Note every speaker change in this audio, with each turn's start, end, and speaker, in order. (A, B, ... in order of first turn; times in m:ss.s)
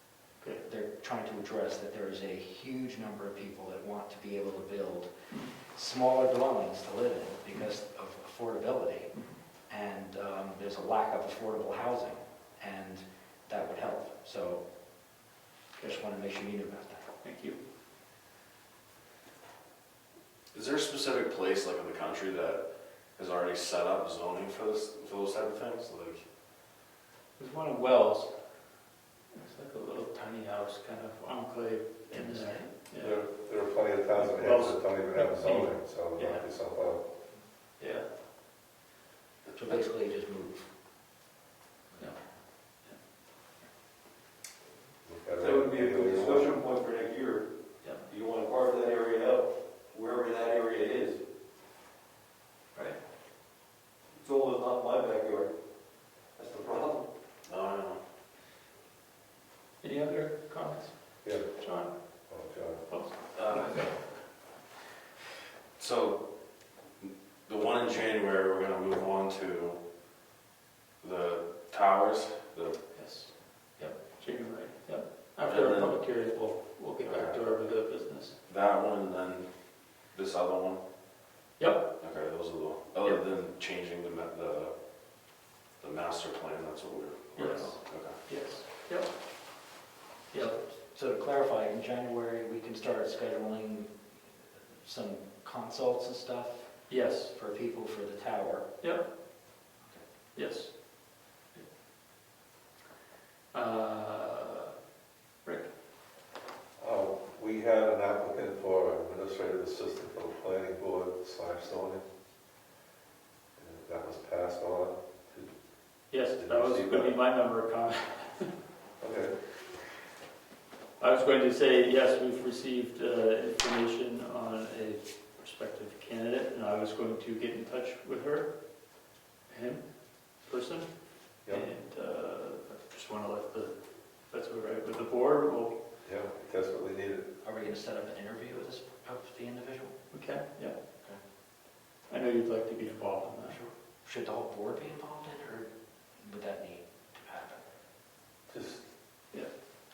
0:00.6-0:09.1 A
0:09.2-0:09.4 B
0:09.7-0:14.6 A
0:15.8-0:17.1 A
0:17.2-0:17.6 B
0:20.5-0:22.6 C
0:23.2-0:26.2 C
0:27.4-0:28.3 B
0:29.3-0:33.2 B
0:32.1-0:32.7 A
0:33.0-0:37.0 D
0:34.1-0:36.5 B
0:37.8-0:38.1 B
0:39.6-0:40.7 A
0:41.9-0:42.2 A
0:45.0-0:46.6 D
0:45.4-0:47.5 E
0:48.1-0:51.2 E
0:54.2-0:55.5 E
0:56.4-0:57.1 E
0:57.5-0:58.0 C
0:59.8-1:01.9 B
1:02.3-1:02.8 D
1:02.9-1:03.9 B
1:03.3-1:03.9 C
1:05.8-1:06.2 C
1:07.0-1:09.8 C
1:11.0-1:12.8 C
1:12.9-1:18.4 B
1:15.4-1:16.0 C
1:17.0-1:17.5 C
1:18.5-1:19.5 C
1:20.1-1:20.8 C
1:21.6-1:21.9 B
1:22.0-1:24.7 C
1:25.8-1:28.2 C
1:27.4-1:29.1 B
1:30.3-1:33.9 A
1:34.8-1:36.7 A
1:36.9-1:37.3 B
1:37.3-1:38.7 A
1:38.8-1:39.1 B
1:40.4-1:40.7 B
1:43.5-1:44.7 B
1:46.8-1:52.0 D
1:53.6-1:55.5 D
1:56.1-1:58.5 B
1:56.4-1:57.2 D
1:59.0-1:59.4 D
2:01.0-2:08.5 B
2:09.5-2:09.8 B
2:10.4-2:10.9 B
2:11.5-2:13.7 B
2:14.3-2:15.8 B
2:16.0-2:17.3 D
2:17.4-2:20.0 A
2:20.1-2:20.8 B
2:22.1-2:23.6 B
2:23.5-2:27.6 A
2:28.5-2:28.8 D